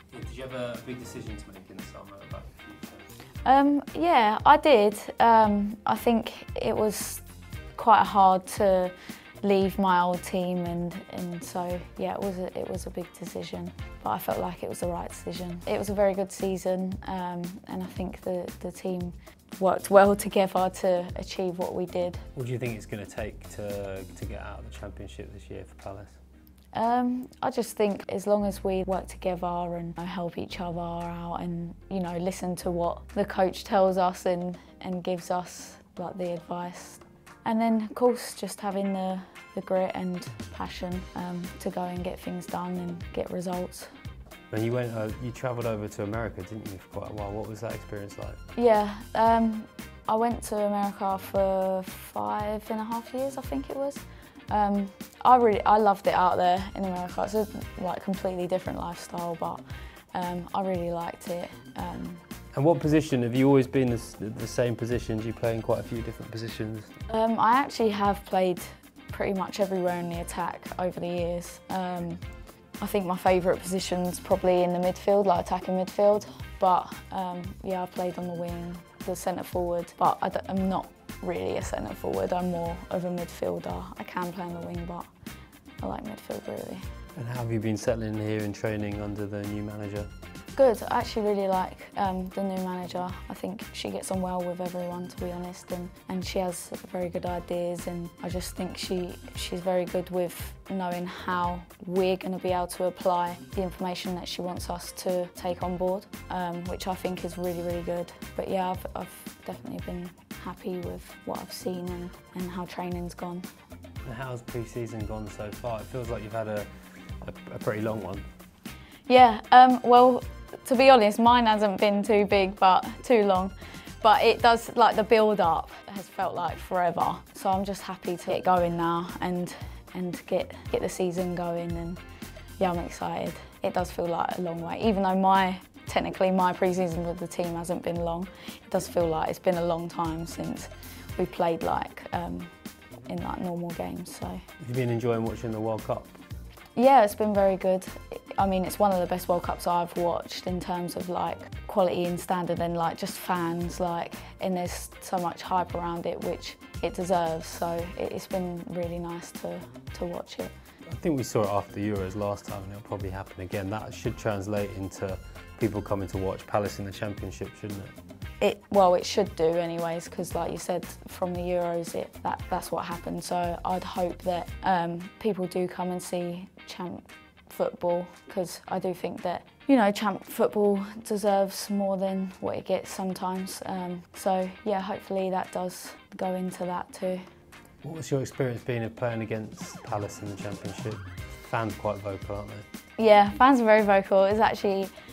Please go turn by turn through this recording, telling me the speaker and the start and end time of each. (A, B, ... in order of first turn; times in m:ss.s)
0:00.1-0:03.1 A
0:03.4-0:22.3 B
0:22.4-0:26.2 A
0:26.7-0:43.9 B
0:44.5-0:48.4 A
0:48.6-1:02.2 B
1:02.5-1:06.9 A
1:07.1-1:25.1 B
1:25.8-1:26.9 B
1:27.2-1:30.1 A
1:30.6-1:53.5 B
1:54.0-1:58.2 A
1:59.1-2:12.0 B
2:12.6-2:22.5 B
2:23.1-2:24.4 B
2:24.6-2:26.2 A
2:26.8-2:40.5 B
2:40.8-2:47.9 A
2:48.4-3:07.3 B
3:07.8-3:12.7 A
3:13.0-3:14.9 B